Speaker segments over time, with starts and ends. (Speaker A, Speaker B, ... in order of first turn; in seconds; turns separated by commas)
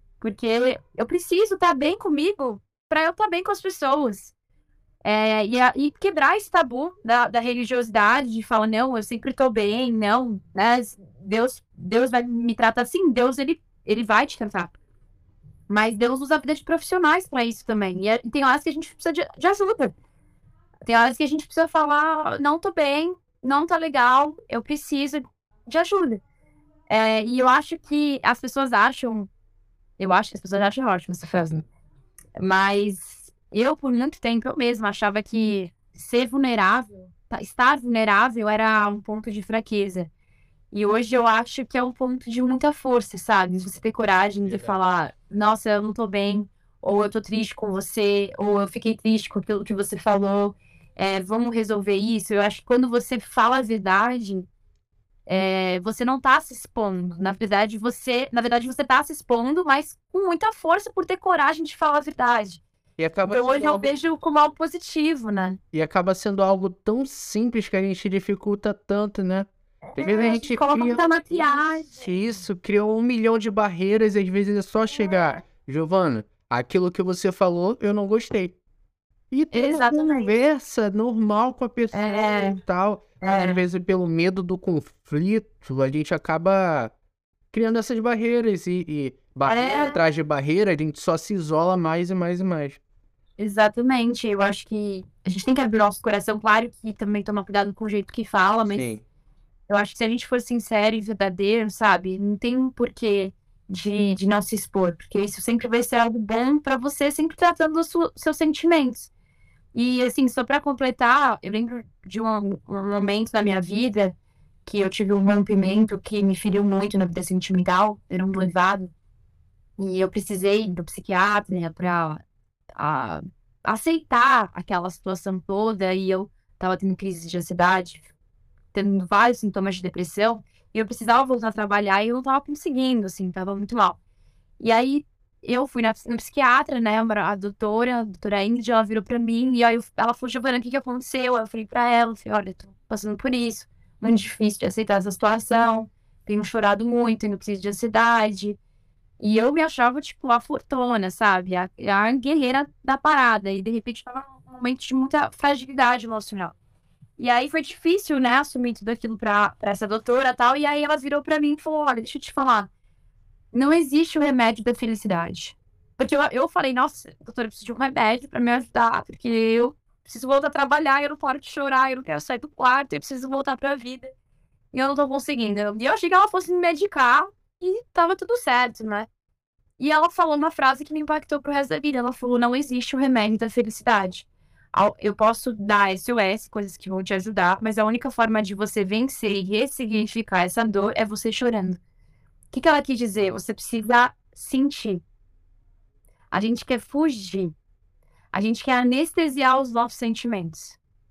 Speaker A: 0.2-4.3, Speaker A: 5.0-14.7, Speaker A: 15.7-19.9, Speaker A: 20.9-26.2, Speaker A: 26.9-29.3, Speaker A: 30.0-31.6, Speaker A: 32.4-40.1, Speaker A: 40.7-54.5, Speaker B: 44.5-44.8, Speaker A: 55.3-62.6, Speaker B: 63.0-63.9, Speaker A: 63.3-65.6, Speaker B: 65.7-71.1, Speaker A: 70.0-72.0, Speaker B: 71.9-78.6, Speaker B: 79.3-86.9, Speaker A: 79.5-80.3, Speaker A: 81.9-82.6, Speaker A: 83.2-83.6, Speaker B: 87.5-92.8, Speaker A: 89.5-90.0, Speaker A: 93.4-98.9, Speaker B: 98.7-99.0, Speaker A: 99.7-109.1, Speaker A: 109.7-114.2, Speaker A: 114.7-118.9, Speaker A: 119.8-122.2, Speaker A: 122.8-128.1, Speaker A: 128.7-134.0, Speaker A: 134.6-148.6, Speaker A: 149.2-156.6, Speaker A: 157.2-162.7, Speaker A: 163.5-174.1, Speaker A: 174.7-179.1, Speaker A: 179.8-191.8, Speaker A: 192.5-195.0, Speaker A: 196.3-197.5, Speaker A: 198.3-200.8